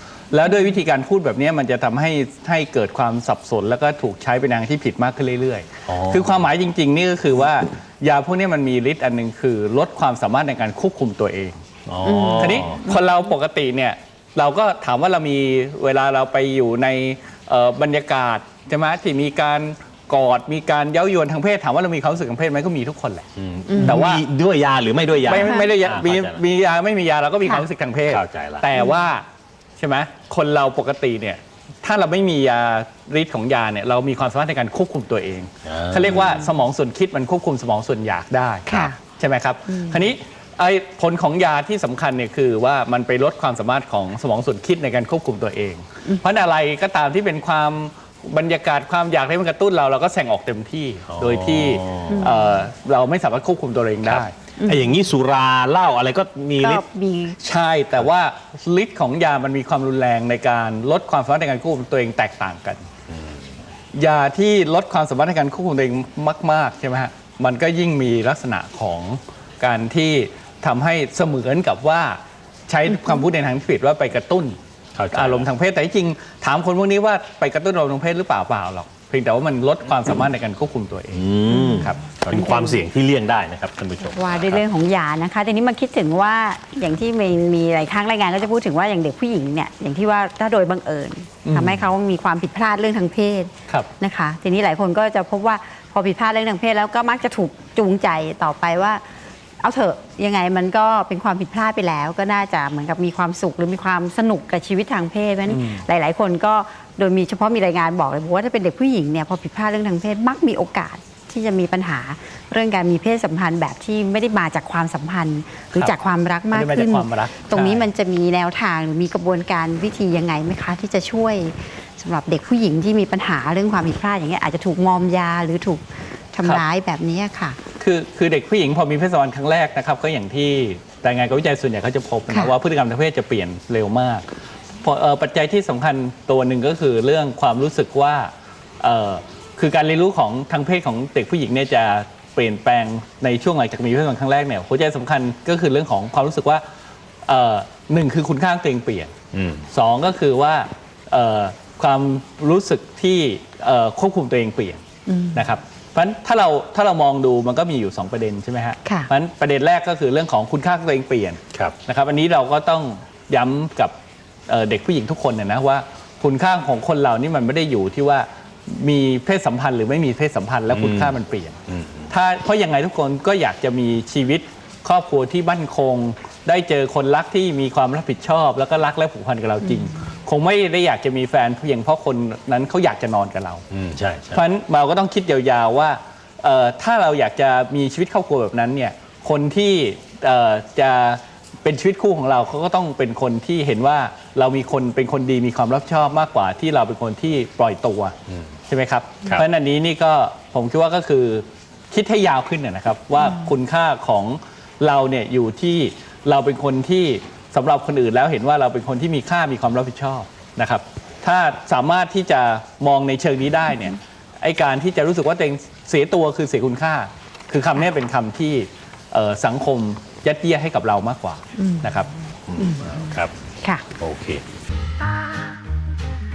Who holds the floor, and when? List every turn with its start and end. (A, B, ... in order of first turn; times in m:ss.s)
0:00.3-0:11.6 A
0:05.9-0:06.5 B
0:11.9-0:13.0 B
0:12.0-0:13.0 C
0:12.4-0:23.3 A
0:23.4-0:26.4 B
0:23.7-0:24.0 C
0:23.8-0:24.2 A
0:25.3-0:29.2 A
0:25.3-0:25.7 C
0:28.1-0:28.7 B
0:29.8-0:54.3 A
0:35.6-0:36.5 B
0:38.7-0:39.0 C
0:51.1-0:52.3 B
0:52.1-0:52.4 C
0:54.0-0:56.8 B
0:54.6-0:54.9 C
0:56.6-0:57.4 C
0:57.4-1:02.8 A
1:03.1-1:03.4 B
1:03.9-1:14.6 A
1:15.0-1:15.5 B
1:15.1-1:22.0 A
1:21.1-1:24.6 B
1:21.5-1:22.8 C
1:24.0-1:39.0 C
1:31.4-1:31.8 A
1:39.6-2:07.6 C
1:45.5-1:45.8 A
1:56.5-1:57.9 A
2:07.8-2:14.3 A
2:14.8-2:26.6 A
2:27.3-2:29.1 A
2:29.3-2:29.7 B
2:29.7-2:34.8 A
2:35.1-2:35.4 C
2:35.3-2:43.9 A
2:38.8-2:39.1 C
2:44.5-2:51.6 A
2:50.7-2:51.2 B
2:51.7-2:52.1 B
2:52.1-3:03.6 A
3:03.7-3:04.4 B
3:04.3-3:18.2 A
3:18.7-3:42.1 A
3:41.6-3:41.9 C
3:42.5-3:43.3 B
3:42.6-3:43.8 C
3:44.0-3:44.4 B